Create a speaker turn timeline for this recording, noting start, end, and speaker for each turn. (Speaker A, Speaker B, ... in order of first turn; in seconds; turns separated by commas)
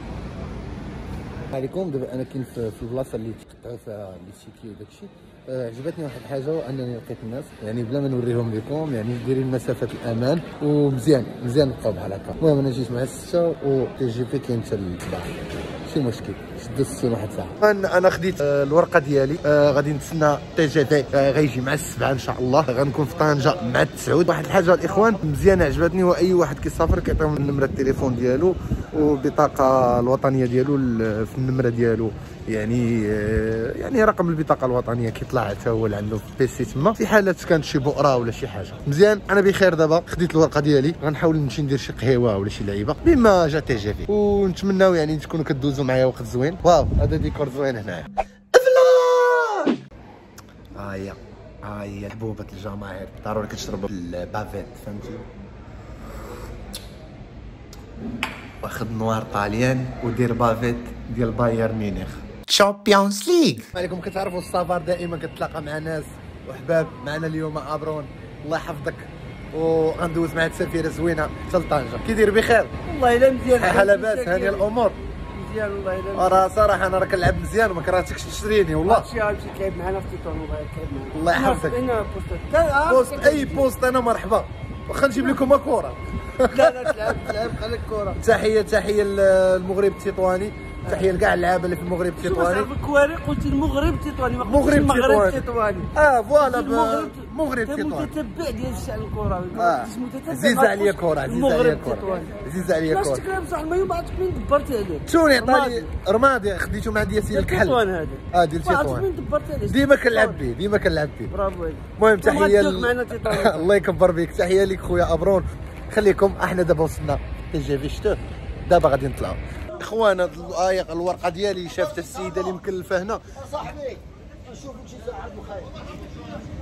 Speaker A: 1.5-49.7, Speaker A: 50.8-55.2, Speaker A: 58.6-72.8, Speaker B: 72.8-74.7, Speaker A: 73.5-75.0, Speaker B: 75.3-76.5, Speaker A: 76.1-79.1, Speaker B: 78.8-83.7, Speaker A: 81.1-81.8, Speaker A: 82.5-87.2, Speaker B: 86.5-88.2, Speaker A: 88.2-92.7, Speaker B: 92.2-102.4, Speaker A: 94.4-98.1, Speaker A: 99.5-103.2, Speaker B: 102.9-105.9, Speaker A: 105.1-107.8, Speaker B: 107.3-110.4, Speaker A: 108.3-109.1, Speaker A: 109.7-111.3, Speaker B: 111.3-113.7, Speaker A: 112.0-123.3, Speaker C: 122.0-122.4, Speaker C: 123.4-126.3